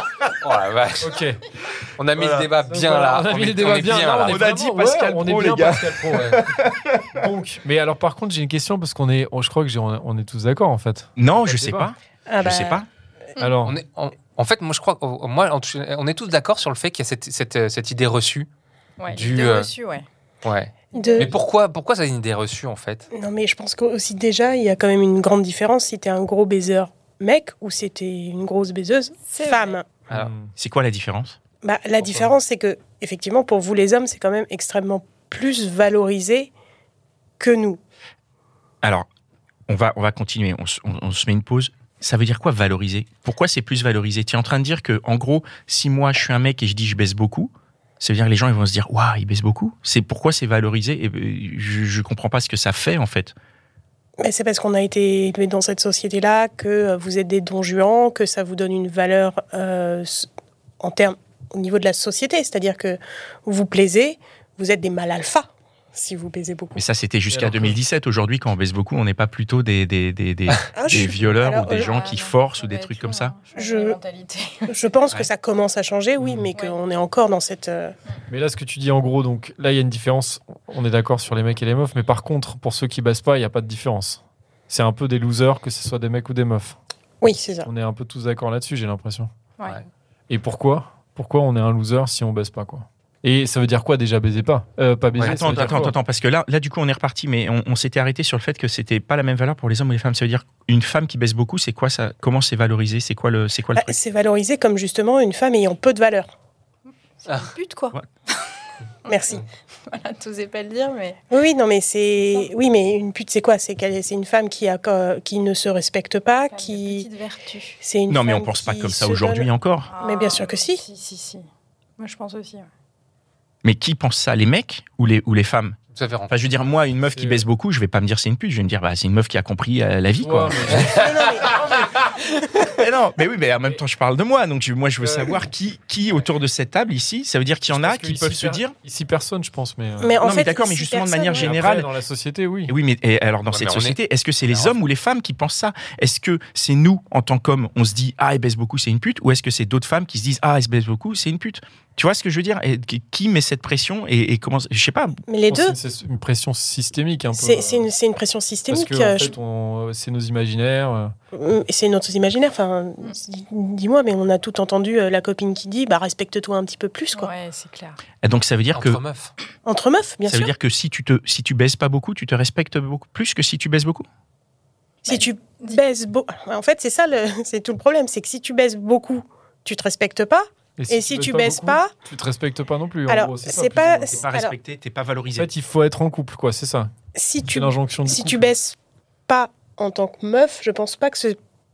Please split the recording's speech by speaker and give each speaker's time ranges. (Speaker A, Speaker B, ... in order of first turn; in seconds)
Speaker A: 0.4-1.2, 2.0-4.4, 6.1-6.4, 13.6-18.5, 19.1-19.7, 20.4-23.1, 32.0-32.3, 95.1-95.7, 125.9-126.7, 130.7-132.1, 143.5-144.8, 168.7-169.3
Speaker B: 1.0-1.4, 2.6-6.4, 7.2-11.9, 13.4-13.8, 30.1-30.5, 67.3-67.8, 78.3-86.8, 87.6-89.3, 90.3-96.0, 127.1-127.4, 130.2-130.9, 135.0-135.4, 137.7-140.2, 141.3-142.7, 155.5-157.8, 158.7-161.1, 180.8-184.2, 185.3-186.9, 187.5-188.5
Speaker C: 2.1-2.5, 4.2-7.2, 11.2-12.9, 30.6-31.4, 39.7-53.3, 66.8-73.3, 95.2-104.0, 118.1-119.9, 123.6-125.8, 126.3-131.0, 132.7-138.7, 140.2-141.9, 142.7-155.2, 168.2-169.0, 170.3-174.1, 184.1-185.5
Speaker D: 12.3-12.8, 20.9-21.3, 23.1-29.9, 31.6-36.5, 37.4-37.8, 54.2-60.3, 60.8-66.8, 70.7-71.9, 73.5-74.0, 74.7-77.9, 87.2-87.7, 103.8-106.3, 109.1-109.4, 111.3-117.1, 117.8-120.8, 130.9-132.0, 140.0-141.5, 155.3-155.8, 157.3-159.3, 161.3-167.3, 169.6-170.5, 175.1-181.9, 183.1-184.5, 187.1-188.8, 189.3-191.4
Speaker E: 19.0-20.1, 20.9-21.3, 29.3-29.8, 71.7-75.0, 76.5-76.8, 107.2-108.4, 109.1-111.2, 112.2-112.5, 116.5-117.8, 119.9-121.4, 122.0-122.7, 167.1-168.0, 175.1-175.8